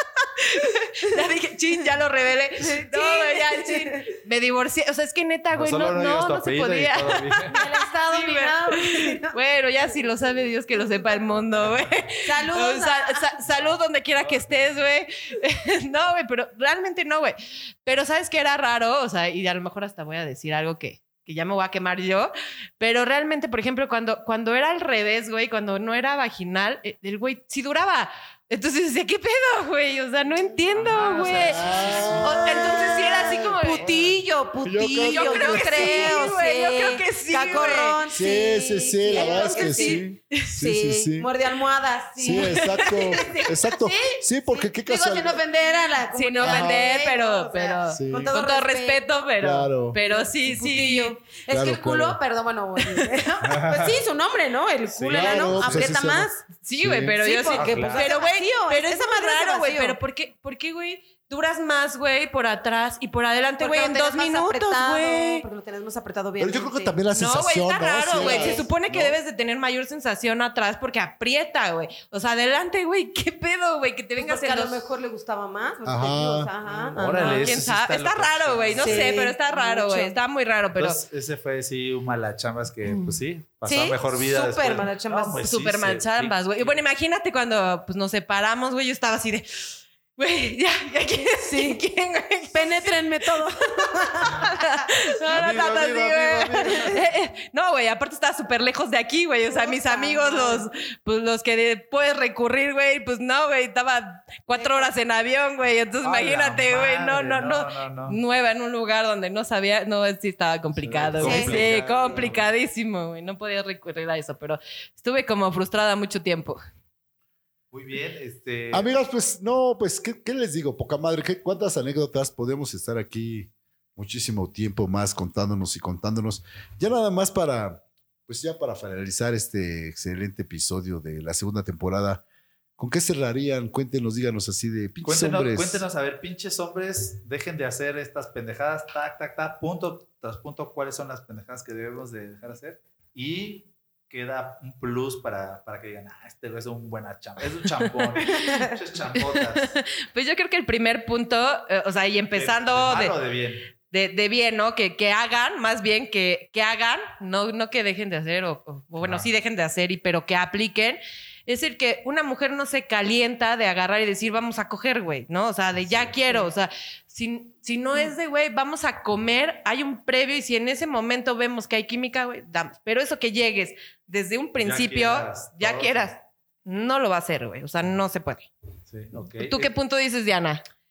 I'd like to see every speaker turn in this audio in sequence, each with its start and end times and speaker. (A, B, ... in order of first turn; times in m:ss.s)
0:00.4-0:31.6 A
0:02.6-0:04.0 B
0:05.5-0:07.5 C
0:07.5-0:09.4 B
0:10.8-0:11.0 B
0:12.2-0:13.3 B
0:30.6-0:32.4 C
0:31.2-0:33.0 D
0:32.2-0:33.8 A
0:32.2-0:40.0 B
0:33.8-0:34.2 C
0:34.6-0:36.3 D
0:35.0-0:38.0 A
0:38.1-0:41.3 D
0:39.1-0:40.5 A
0:40.6-0:49.0 B
0:42.2-0:45.4 D
0:42.2-0:44.1 A
0:46.1-0:51.1 A
0:46.4-0:46.7 D
0:47.9-0:48.4 D
0:49.4-0:50.0 D
0:50.0-0:56.4 B
0:51.5-0:52.2 D
0:53.4-0:54.0 C
0:54.9-0:55.9 C
0:55.1-0:57.2 D
0:56.6-1:05.4 A
0:57.2-1:00.0 B
0:57.5-0:58.1 C
1:03.6-1:07.0 B
1:06.4-1:09.2 D
1:07.1-1:14.8 A
1:08.1-1:08.7 B
1:14.2-1:17.6 B
1:15.8-1:16.5 D
1:16.9-1:21.0 A
1:17.0-1:19.2 C
1:18.7-1:20.2 B
1:20.8-1:26.8 C
1:23.6-1:25.4 B
1:25.4-1:33.4 A
1:31.4-1:31.8 B
1:32.5-1:34.8 B
1:34.3-1:56.6 A
1:35.3-1:37.0 C
1:39.5-1:40.7 B
1:44.5-1:44.9 B
1:46.0-1:48.2 C
1:50.8-1:52.5 C
1:51.2-1:52.2 B
1:57.7-1:58.9 C
1:58.7-2:12.2 D
2:12.8-2:15.8 D
2:15.0-2:29.7 C
2:28.2-2:28.7 B
2:29.3-2:33.2 A
2:32.4-2:33.7 C
2:33.9-2:58.5 A
2:39.0-2:39.3 C
2:45.8-2:46.1 C
2:54.6-2:56.1 C
2:58.9-2:59.7 C
2:59.4-3:00.6 A